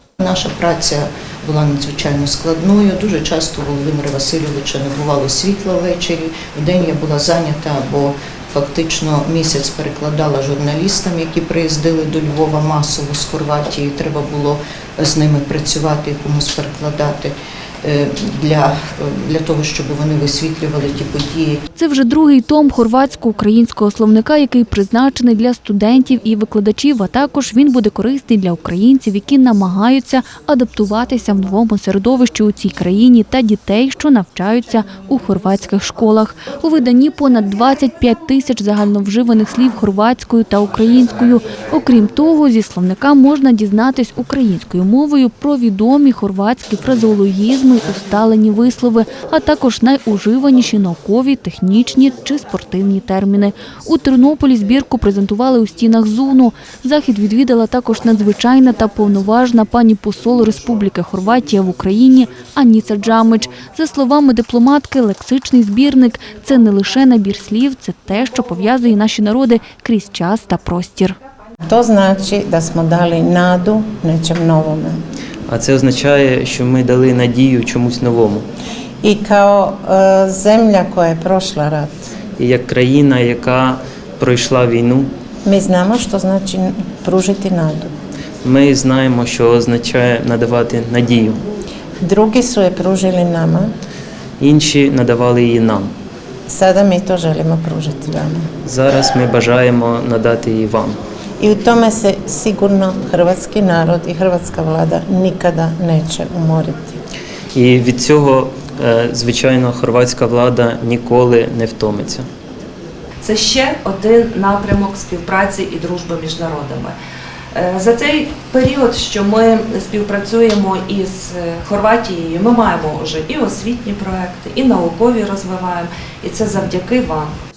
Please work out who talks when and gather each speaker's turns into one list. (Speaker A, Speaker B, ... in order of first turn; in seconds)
Speaker A: 0.2-21.6
Speaker B: 21.8-71.1
Speaker C: 71.7-75.0, 79.0-81.9, 85.5-87.9, 92.0-93.7, 96.5-98.4, 101.4-107.0
Speaker D: 75.5-78.4, 82.4-85.1, 88.4-91.4, 94.4-95.9, 98.6-101.0, 107.5-112.2
Speaker E: 113.2-116.9, 117.6-127.3